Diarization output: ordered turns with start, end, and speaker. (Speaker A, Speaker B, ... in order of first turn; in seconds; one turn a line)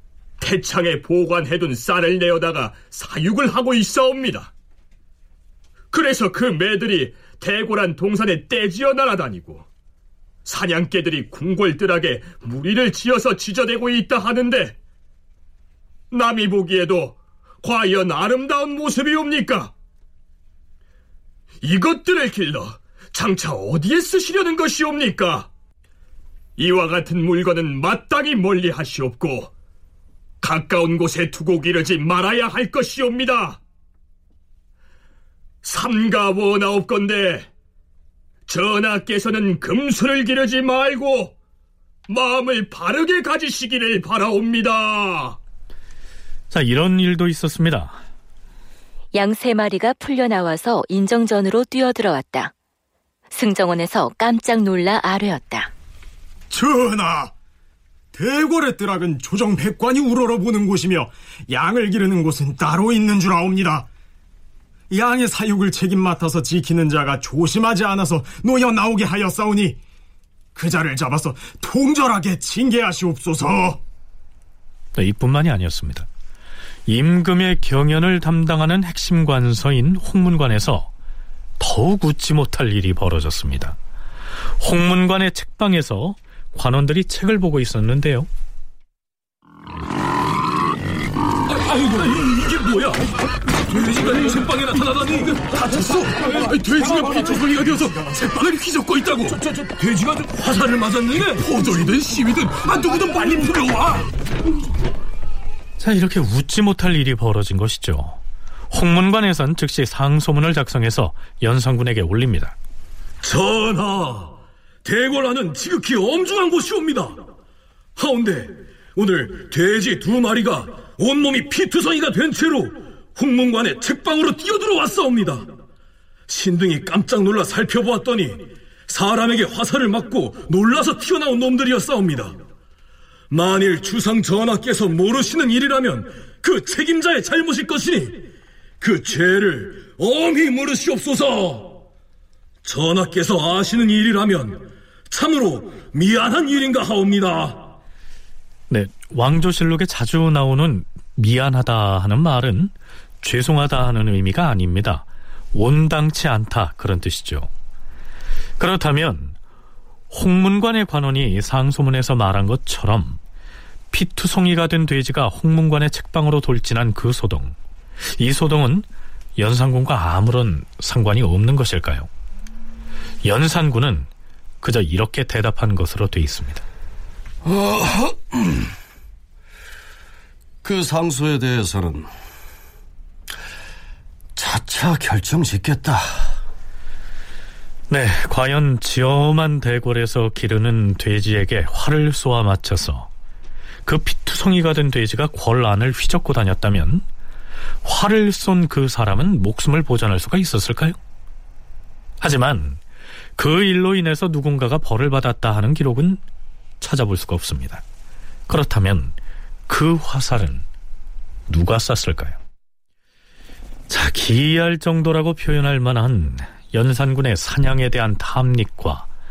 Speaker A: 0.4-4.5
Speaker A: 5.9-9.6
Speaker A: 10.4-14.7
Speaker A: 16.1-19.7
Speaker A: 21.6-25.5
Speaker A: 26.6-29.5
Speaker A: 30.4-33.6
Speaker A: 35.6-37.5
Speaker A: 38.5-41.3
Speaker A: 42.1-45.4
Speaker B: 46.5-48.0
Speaker C: 49.1-52.5
Speaker C: 53.3-55.7
Speaker D: 56.5-57.3
Speaker D: 58.1-63.9
Speaker D: 64.9-69.8
Speaker D: 70.5-73.8
Speaker B: 75.0-76.1
Speaker B: 76.9-80.9
Speaker B: 81.6-83.8
Speaker B: 84.6-88.3
Speaker E: 91.5-93.0
Speaker E: 93.7-104.0
Speaker B: 105.8-108.2
Speaker B: 108.7-112.5
Speaker E: 113.2-117.2
Speaker E: 118.0-125.5
Speaker E: 126.3-132.3
Speaker E: 133.3-138.2
Speaker E: 138.8-141.8
Speaker E: 142.6-147.7
Speaker B: 148.7-157.5
Speaker B: 158.6-159.3
Speaker B: 160.1-163.2
Speaker B: 163.9-167.6
Speaker B: 168.2-168.8
Speaker B: 169.4-172.1
Speaker B: 173.2-174.1
Speaker B: 174.6-176.6
Speaker F: 177.4-178.5
Speaker F: 180.6-182.1
Speaker F: 184.3-186.4
Speaker B: 187.9-193.1
Speaker B: 193.8-197.0
Speaker B: 197.8-201.0
Speaker B: 202.2-202.8
Speaker B: 203.4-206.2
Speaker B: 206.8-207.8
Speaker B: 208.5-209.1
Speaker B: 209.7-210.6
Speaker B: 211.5-212.4
Speaker B: 213.9-219.1